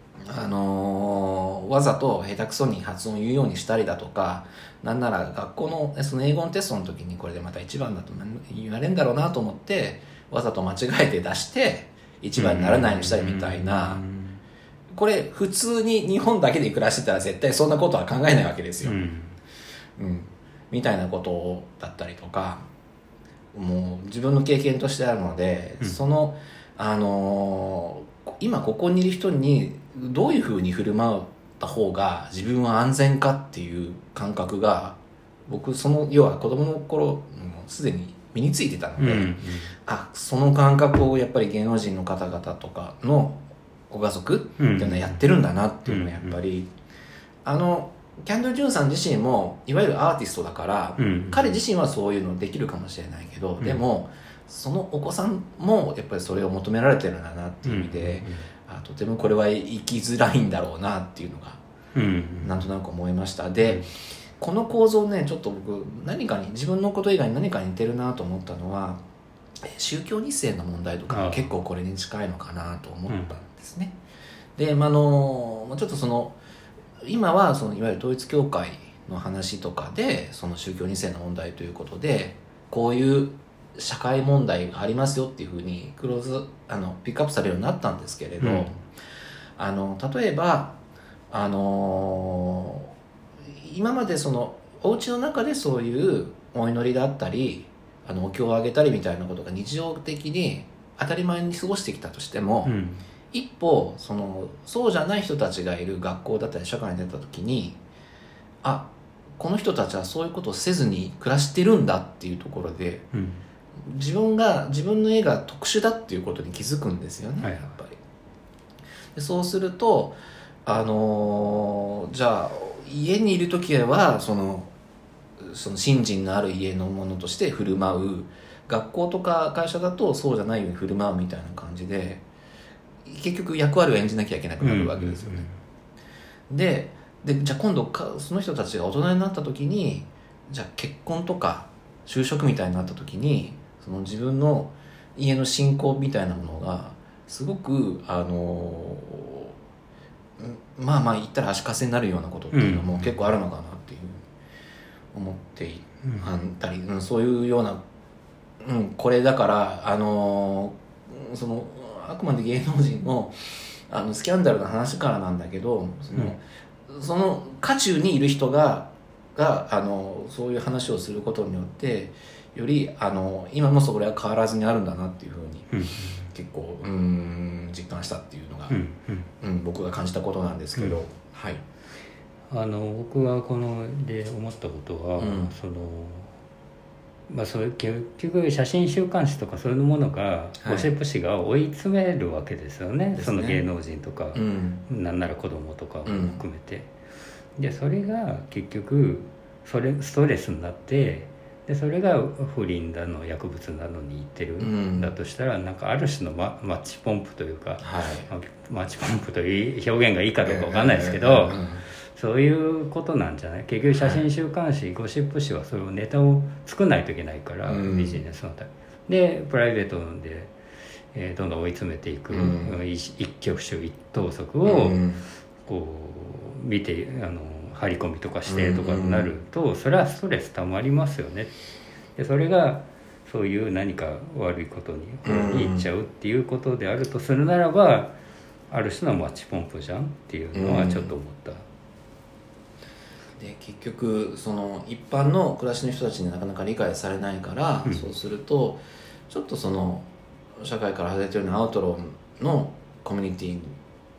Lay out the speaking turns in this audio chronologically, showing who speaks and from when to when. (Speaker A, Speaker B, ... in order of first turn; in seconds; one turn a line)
Speaker A: 0.3-14.0
Speaker B: 12.4-14.4
Speaker A: 14.9-19.0
Speaker B: 18.8-19.4
Speaker A: 20.0-22.7
Speaker A: 23.5-46.7
Speaker B: 39.0-39.7
Speaker B: 44.6-45.2
Speaker B: 45.9-46.4
Speaker A: 47.5-61.6
Speaker B: 51.0-51.6
Speaker B: 57.6-58.5
Speaker B: 62.0-62.6
Speaker A: 62.4-63.9
Speaker B: 63.6-63.9
Speaker A: 64.4-69.0
Speaker A: 69.7-74.0
Speaker B: 71.1-71.5
Speaker B: 73.1-73.4
Speaker A: 74.6-76.4
Speaker A: 77.0-88.8
Speaker B: 88.4-88.7
Speaker A: 89.6-90.8
Speaker A: 91.3-92.9
Speaker A: 93.5-102.8
Speaker B: 102.7-103.0
Speaker A: 103.3-107.8
Speaker A: 108.6-113.1
Speaker B: 113.1-113.4
Speaker A: 113.9-118.0
Speaker B: 117.4-117.8
Speaker A: 119.2-124.7
Speaker A: 125.4-132.2
Speaker A: 133.1-135.5
Speaker B: 134.6-135.6
Speaker A: 136.5-149.6
Speaker A: 150.4-154.2
Speaker B: 152.5-153.3
Speaker A: 155.1-157.8
Speaker B: 156.0-156.3
Speaker A: 158.6-163.3
Speaker A: 163.9-175.7
Speaker B: 175.7-176.3
Speaker A: 176.3-178.8
Speaker B: 178.7-179.3
Speaker A: 179.4-181.6
Speaker B: 182.5-186.3
Speaker A: 185.2-185.5
Speaker B: 187.3-196.9
Speaker A: 190.6-190.9
Speaker A: 193.2-193.7
Speaker A: 194.3-194.8
Speaker A: 196.1-196.4
Speaker B: 197.6-220.5
Speaker A: 204.6-205.1
Speaker A: 207.8-208.3
Speaker A: 210.4-211.8
Speaker A: 217.7-218.2
Speaker B: 221.1-225.0
Speaker A: 222.3-222.8
Speaker A: 224.6-225.2
Speaker B: 225.7-231.5
Speaker A: 228.5-229.3
Speaker B: 232.2-238.2
Speaker A: 235.2-235.9
Speaker B: 238.7-241.7
Speaker A: 240.5-241.1
Speaker A: 243.4-253.7